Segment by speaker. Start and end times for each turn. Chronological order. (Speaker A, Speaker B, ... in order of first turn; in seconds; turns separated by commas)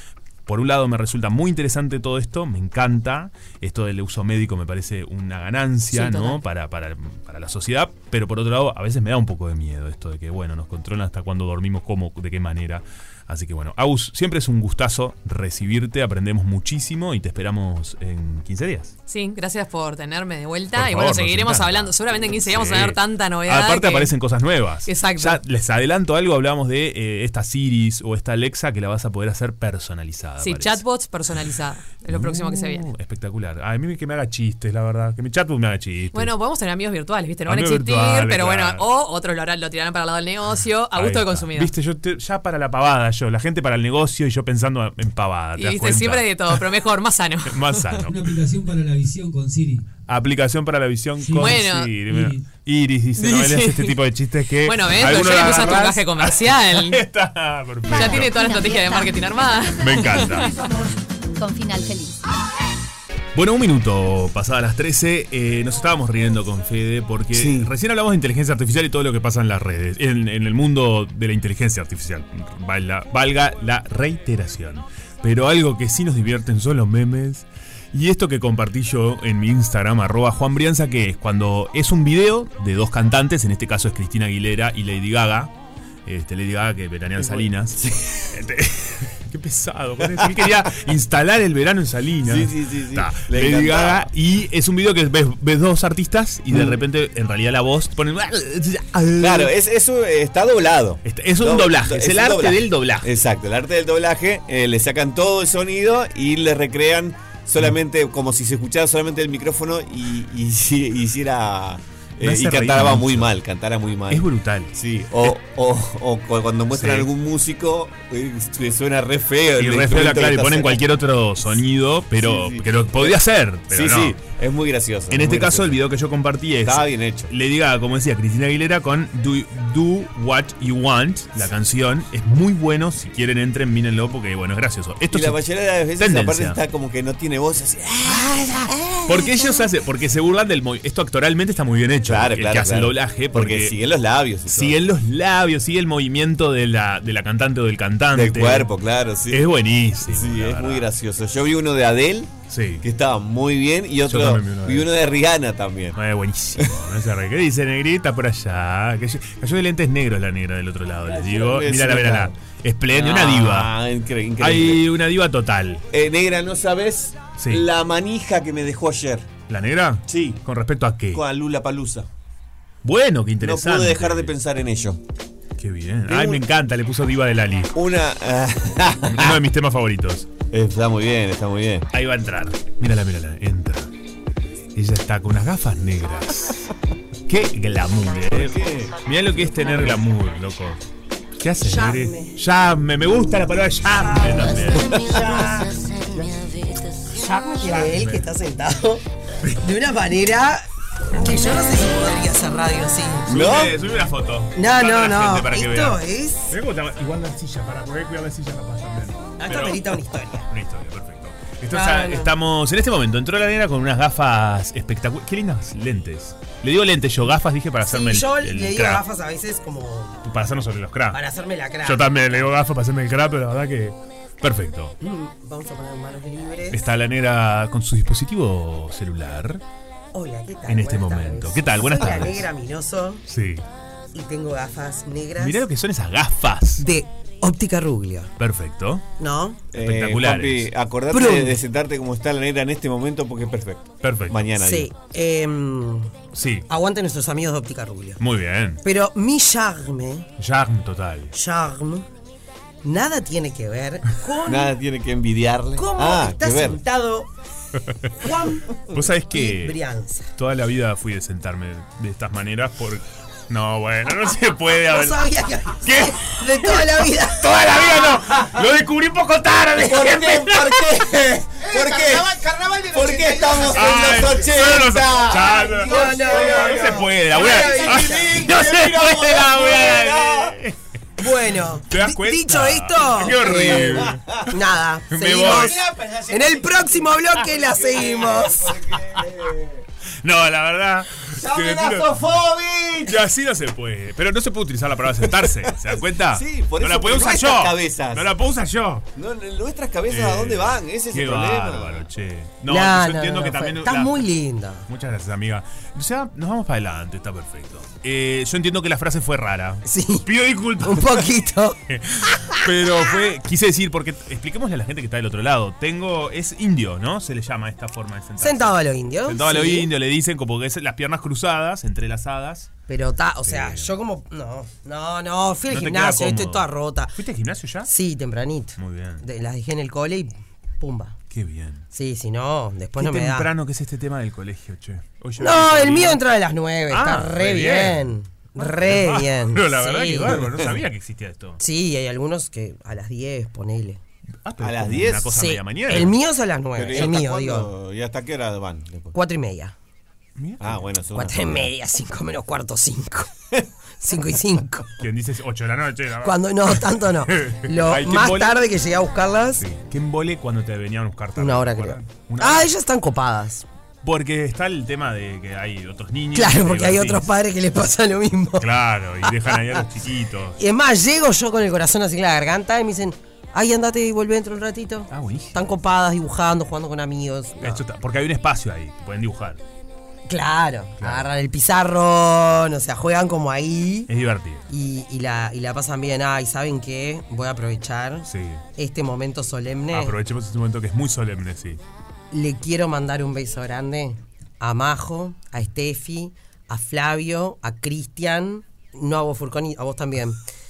Speaker A: 0.5-18.9, Speaker B: 5.9-6.4, Speaker B: 19.1-24.2, Speaker A: 20.7-30.8, Speaker B: 24.8-25.4, Speaker B: 30.4-32.9, Speaker A: 32.1-36.3, Speaker B: 36.1-41.7, Speaker A: 37.5-38.8, Speaker A: 40.9-46.6, Speaker B: 45.5-48.0, Speaker A: 47.5-48.1, Speaker C: 48.0-49.9, Speaker A: 50.1-58.3, Speaker C: 51.2-52.4, Speaker B: 51.4-52.0, Speaker B: 53.1-54.0, Speaker B: 54.6-57.0, Speaker D: 57.9-59.5, Speaker B: 57.9-60.5, Speaker A: 59.8-60.5, Speaker D: 61.4-62.2, Speaker A: 63.3-85.5, Speaker E: 67.3-67.7, Speaker A: 86.0-99.5, Speaker E: 87.2-88.3, Speaker E: 92.2-94.1, Speaker E: 96.5-96.8, Speaker E: 99.2-120.8, Speaker A: 101.0-103.1, Speaker A: 112.2-113.3, Speaker A: 114.1-114.7, Speaker A: 116.7-117.1, Speaker A: 119.5-124.2, Speaker E: 122.2-123.2, Speaker E: 123.7-125.8, Speaker A: 125.1-135.4, Speaker E: 126.6-127.3, Speaker E: 135.1-139.3, Speaker A: 135.9-136.6, Speaker A: 138.0-143.8, Speaker E: 142.0-144.8, Speaker A: 144.5-148.7, Speaker E: 148.1-149.4, Speaker A: 149.3-150.9, Speaker E: 150.0-156.0, Speaker A: 152.5-152.8, Speaker A: 154.1-154.9, Speaker A: 155.9-163.7, Speaker E: 161.1-162.3, Speaker E: 162.9-164.8, Speaker A: 164.4-165.8, Speaker E: 165.9-169.3, Speaker A: 167.4-167.7, Speaker A: 169.5-171.2, Speaker E: 170.1-170.4, Speaker E: 171.1-172.1, Speaker A: 172.8-174.3, Speaker E: 173.4-175.0, Speaker A: 175.6-177.8, Speaker E: 176.1-176.4, Speaker E: 177.7-179.4, Speaker A: 179.1-180.3, Speaker E: 180.5-181.8, Speaker A: 181.9-183.9, Speaker A: 184.8-186.7, Speaker A: 187.3-190.8, Speaker E: 188.3-189.0, Speaker A: 191.4-195.5, Speaker F: 191.6-192.3, Speaker F: 194.8-195.7, Speaker E: 194.8-195.7, Speaker F: 197.1-199.0, Speaker A: 197.2-198.2, Speaker F: 199.6-200.6, Speaker F: 201.2-203.3, Speaker E: 203.3-203.7, Speaker A: 203.3-219.0, Speaker F: 204.5-206.5, Speaker F: 209.4-210.5, Speaker F: 211.7-212.3, Speaker F: 217.8-220.2, Speaker A: 220.2-221.2, Speaker F: 221.1-222.1, Speaker A: 221.8-224.9, Speaker F: 225.0-226.8, Speaker A: 226.7-229.6, Speaker F: 230.1-233.2, Speaker A: 230.7-232.5, Speaker A: 233.3-233.6, Speaker F: 234.1-235.6, Speaker A: 235.4-236.8, Speaker F: 236.8-238.3, Speaker A: 238.4-239.0, Speaker F: 239.2-239.6, Speaker E: 239.7-244.9, Speaker A: 239.8-240.7, Speaker F: 241.1-241.6, Speaker A: 244.0-244.4, Speaker F: 244.6-246.1, Speaker A: 246.3-246.7, Speaker F: 246.7-248.2, Speaker A: 248.2-248.8, Speaker F: 248.8-250.3, Speaker A: 250.4-251.3, Speaker F: 251.3-252.0, Speaker F: 252.8-254.7, Speaker E: 254.4-256.8, Speaker F: 255.8-257.3, Speaker F: 258.2-260.2, Speaker A: 258.9-259.8, Speaker A: 260.4-265.2, Speaker F: 264.9-268.6, Speaker A: 265.8-271.1, Speaker E: 269.8-280.6, Speaker A: 271.9-272.2, Speaker A: 273.4-280.8, Speaker F: 275.8-278.3, Speaker F: 281.2-285.8, Speaker A: 281.9-284.4, Speaker E: 283.8-284.4, Speaker A: 285.1-285.8, Speaker E: 285.4-289.8, Speaker F: 286.3-288.7, Speaker A: 290.2-292.2, Speaker E: 291.3-293.2, Speaker A: 293.1-299.1, Speaker E: 295.4-298.3, Speaker E: 299.1-302.1, Speaker A: 300.1-304.2, Speaker F: 302.7-304.8, Speaker A: 304.9-311.3, Speaker F: 309.8-310.3, Speaker F: 310.8-311.8, Speaker A: 311.9-322.7, Speaker F: 312.3-312.6, Speaker F: 318.4-319.9, Speaker F: 322.9-327.1, Speaker A: 323.4-323.9, Speaker A: 325.7-327.9, Speaker F: 327.9-331.1, Speaker A: 328.8-329.2, Speaker A: 331.3-331.8, Speaker F: 331.9-333.5, Speaker A: 332.9-336.2, Speaker F: 335.4-340.4, Speaker A: 336.9-341.6, Speaker F: 341.6-344.0, Speaker A: 344.4-346.1, Speaker E: 344.6-345.3, Speaker F: 345.3-347.7, Speaker E: 346.8-349.1, Speaker F: 349.1-349.7, Speaker A: 350.4-350.9, Speaker E: 350.6-351.7, Speaker F: 351.1-353.3, Speaker F: 354.0-354.9, Speaker A: 355.0-358.6, Speaker F: 356.2-359.6, Speaker A: 359.6-362.7, Speaker F: 361.4-363.6, Speaker A: 364.0-367.3, Speaker F: 366.3-368.7, Speaker A: 368.6-370.6, Speaker F: 369.2-369.6, Speaker F: 370.6-377.8, Speaker A: 375.1-375.6, Speaker A: 377.6-379.6, Speaker F: 380.3-384.1, Speaker A: 381.0-381.3, Speaker A: 384.1-384.6, Speaker F: 384.7-390.1, Speaker A: 388.3-388.6, Speaker A: 389.9-391.8, Speaker F: 392.3-400.4